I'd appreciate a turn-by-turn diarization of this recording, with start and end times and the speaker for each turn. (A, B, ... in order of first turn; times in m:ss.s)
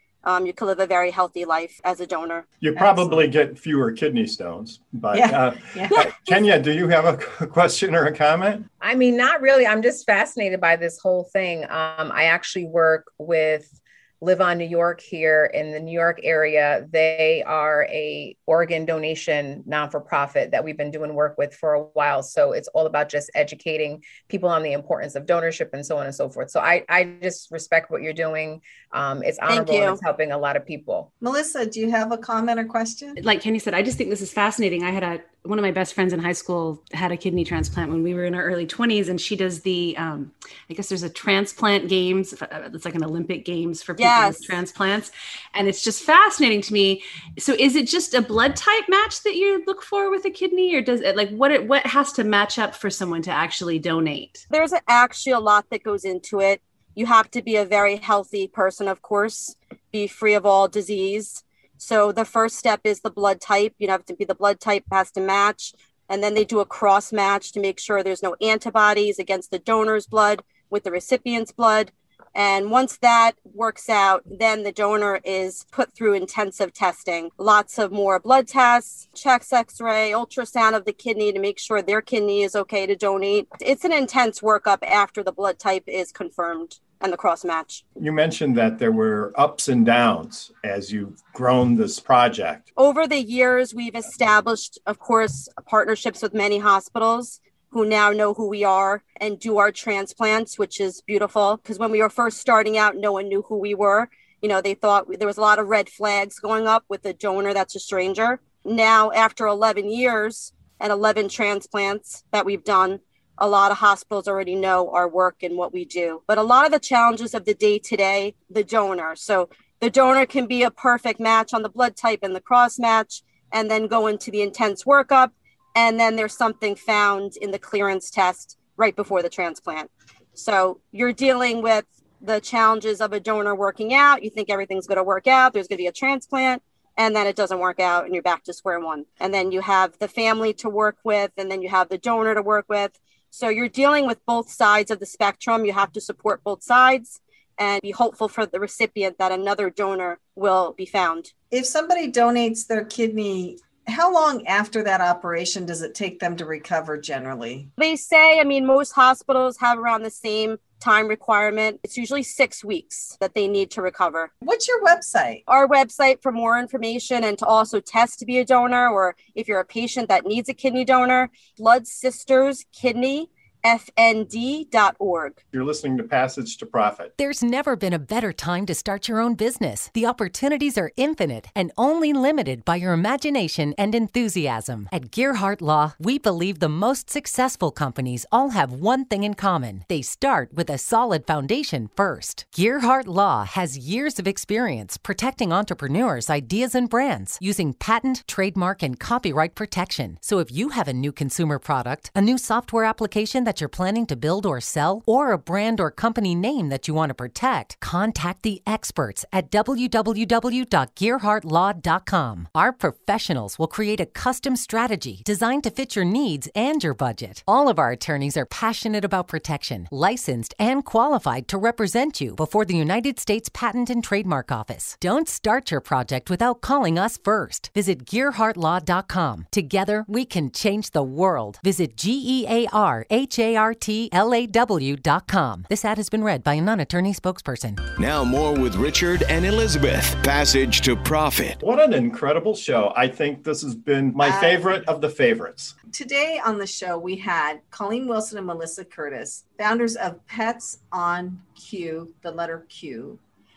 0:00.2-0:02.5 A
0:02.6-0:08.7 B
0:02.8-0:03.3 C
0:05.1-0:06.4 C
0:08.8-0:31.1 D
0:29.5-0:30.0 A
0:31.2-0:33.2 C
0:33.2-0:54.4 E
0:44.0-0:44.6 A
0:54.5-1:27.8 A
1:28.0-1:32.7 B
1:32.8-2:31.3 A
2:31.5-2:37.7 C
2:37.8-2:44.3 A
2:44.4-2:45.4 C
2:45.5-2:55.4 A
2:55.5-2:57.1 B
2:57.2-3:57.8 F
3:58.0-4:01.6 G
4:01.6-4:05.8 B
4:04.2-4:04.6 C
4:05.9-4:13.2 C